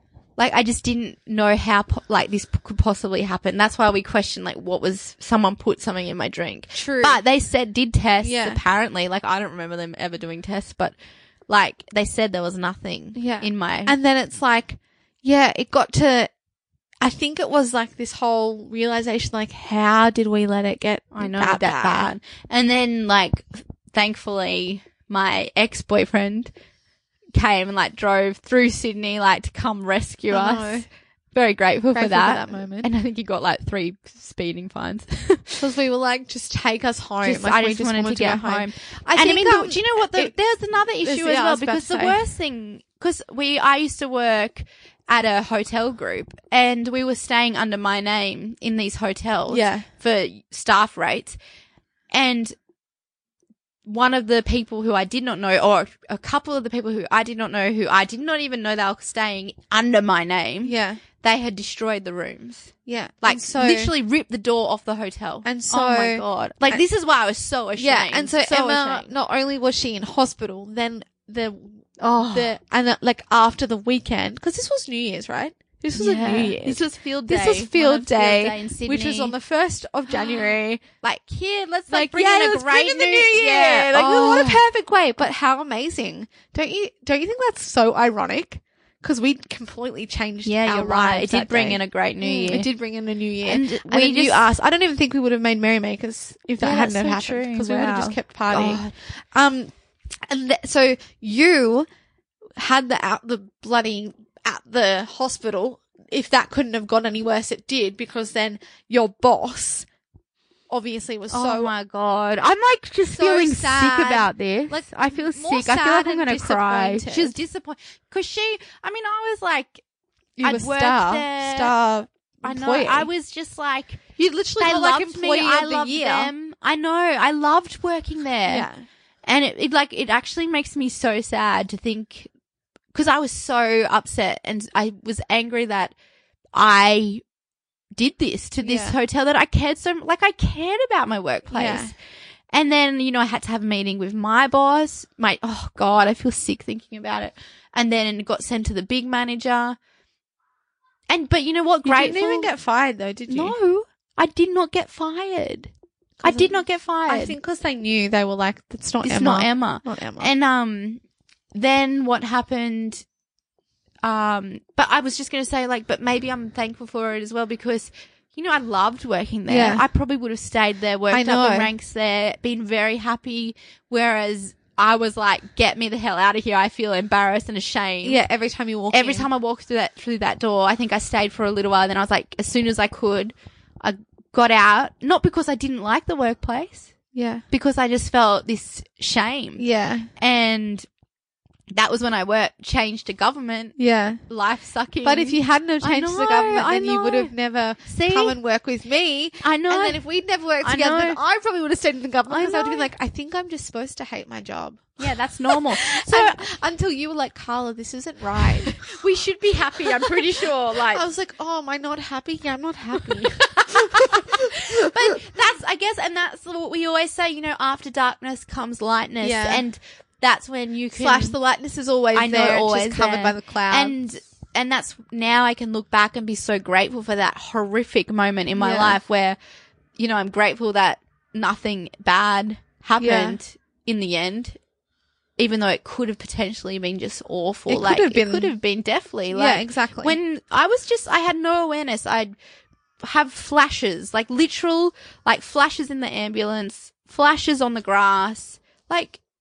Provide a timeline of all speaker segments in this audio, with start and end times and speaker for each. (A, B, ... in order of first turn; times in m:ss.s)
0:00.4-0:11.0 A
0:06.7-0:07.2 B
0:08.2-0:08.6 B
0:11.5-0:14.0 A
0:13.2-0:16.3 B
0:17.0-0:22.1 B
0:21.1-0:26.5 A
0:27.4-0:35.6 A
0:30.3-0:30.9 B
0:31.9-0:32.9 B
0:35.5-0:40.3 B
0:37.2-0:51.4 A
0:41.0-0:42.2 B
0:49.5-0:49.9 B
0:52.1-0:52.6 A
0:53.9-1:09.1 A
1:00.6-1:01.0 B
1:02.9-1:03.9 B
1:05.4-1:06.8 B
1:07.8-1:20.8 B
1:12.0-1:12.5 A
1:16.0-1:19.4 A
1:21.0-1:24.6 A
1:21.9-1:41.9 B
1:30.4-1:32.7 A
1:33.4-1:34.4 A
1:36.6-1:38.9 A
1:42.6-1:49.9 B
1:50.7-1:51.7 B
1:51.3-1:59.8 A
1:53.1-1:57.4 B
2:00.4-2:03.1 B
2:00.4-2:01.8 A
2:02.4-2:08.7 A
2:04.5-2:06.3 B
2:08.5-2:08.8 B
2:09.3-2:12.3 A
2:12.9-2:15.9 A
2:16.5-2:17.2 A
2:18.0-2:21.9 A
2:18.6-2:19.0 B
2:21.5-2:21.9 B
2:22.5-2:29.8 A
2:31.1-2:32.5 A
2:31.8-2:33.6 B
2:33.3-2:35.7 A
2:36.2-2:40.3 B
2:36.2-2:37.4 A
2:39.0-2:41.0 A
2:41.5-2:43.0 A
2:44.0-2:58.2 A
2:49.5-2:49.8 B
2:51.1-2:51.7 B
2:58.0-2:59.3 B
2:58.9-3:06.9 A
3:07.1-3:07.4 B
3:07.5-3:09.7 A
3:09.6-3:10.1 B
3:10.2-3:10.9 A
3:11.7-3:13.8 A
3:13.8-3:14.2 B
3:14.3-3:17.3 A
3:15.0-3:28.8 B
3:17.9-3:18.4 A
3:19.4-3:20.0 A
3:20.6-3:21.2 A
3:22.3-3:22.9 A
3:25.0-3:26.4 A
3:28.7-3:31.1 A
3:29.8-3:35.2 B
3:33.0-3:41.4 A
3:39.2-3:39.6 B
3:40.9-3:44.0 B
3:42.2-3:49.4 A
3:48.6-3:49.0 B
3:50.0-3:54.6 A
3:53.0-3:53.4 B
3:55.4-4:02.3 A
3:57.7-3:58.5 B
3:59.3-4:00.2 B
4:03.0-4:09.2 A